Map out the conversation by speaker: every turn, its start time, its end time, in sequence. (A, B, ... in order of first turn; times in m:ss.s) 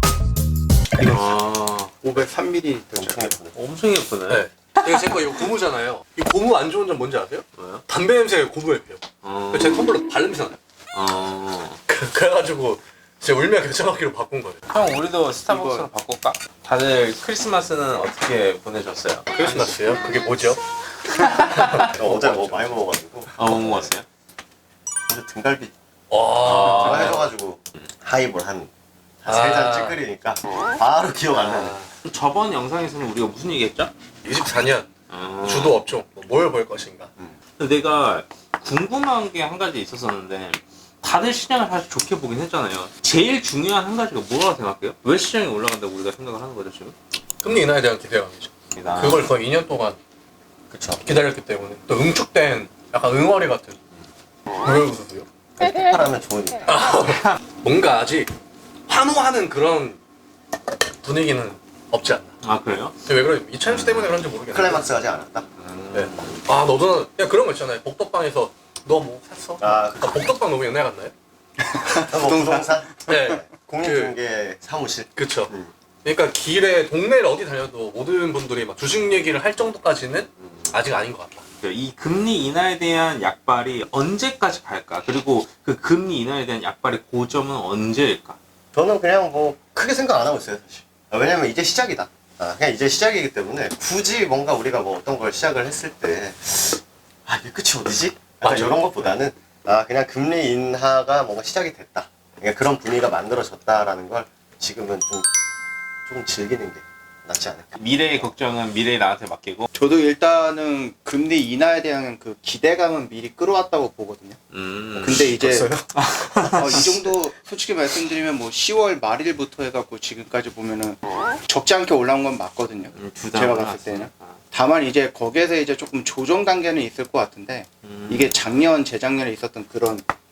0:01.0-0:02.2 A
0:02.0-0:03.3 B
0:02.9-0:03.6 C
0:03.6-0:05.1 A
0:04.3-0:10.6 D
0:07.6-0:07.8 A
0:09.2-0:09.9 A
0:10.9-0:11.8 A
0:11.9-0:14.6 D
0:14.7-0:19.3 A
0:15.5-0:15.9 B
0:19.3-0:20.6 D
0:21.2-0:21.9 A
0:21.3-0:22.8 D
0:21.8-0:23.9 C
0:23.4-0:24.0 A
0:25.1-0:25.7 C
0:26.1-0:27.3 D
0:26.4-0:28.7 C
0:26.5-0:27.2 A
0:29.2-0:31.8 C
0:29.3-0:30.0 D
0:31.4-0:31.9 D
0:32.0-0:33.9 A
0:34.2-0:37.1 D
0:35.1-0:35.8 A
0:37.6-0:47.0 A
0:47.4-0:50.0 D
0:48.8-0:49.3 A
0:50.7-0:51.0 C
0:51.0-0:53.8 D
0:54.6-0:55.3 D
0:55.6-0:57.0 C
0:56.7-0:58.3 D
0:58.9-1:00.0 D
1:01.0-1:02.4 D
1:02.4-1:03.0 A
1:03.0-1:04.9 D
1:03.7-1:05.5 C
1:05.6-1:06.4 A
1:05.9-1:11.1 D
1:09.6-1:10.4 C
1:11.6-1:12.8 B
1:12.0-1:15.7 C
1:13.1-1:14.2 D
1:15.2-1:15.5 D
1:16.0-1:21.4 D
1:20.4-1:20.8 C
1:21.6-1:28.4 A
1:28.7-1:45.3 C
1:38.4-1:38.8 A
1:46.1-1:48.3 C
1:47.8-1:49.7 A
1:49.7-1:54.4 B
1:54.5-1:55.3 A
1:55.0-1:55.7 B
1:55.1-1:56.9 C
1:56.0-1:57.1 A
1:56.6-2:10.1 B
2:03.0-2:04.4 A
2:07.8-2:08.4 A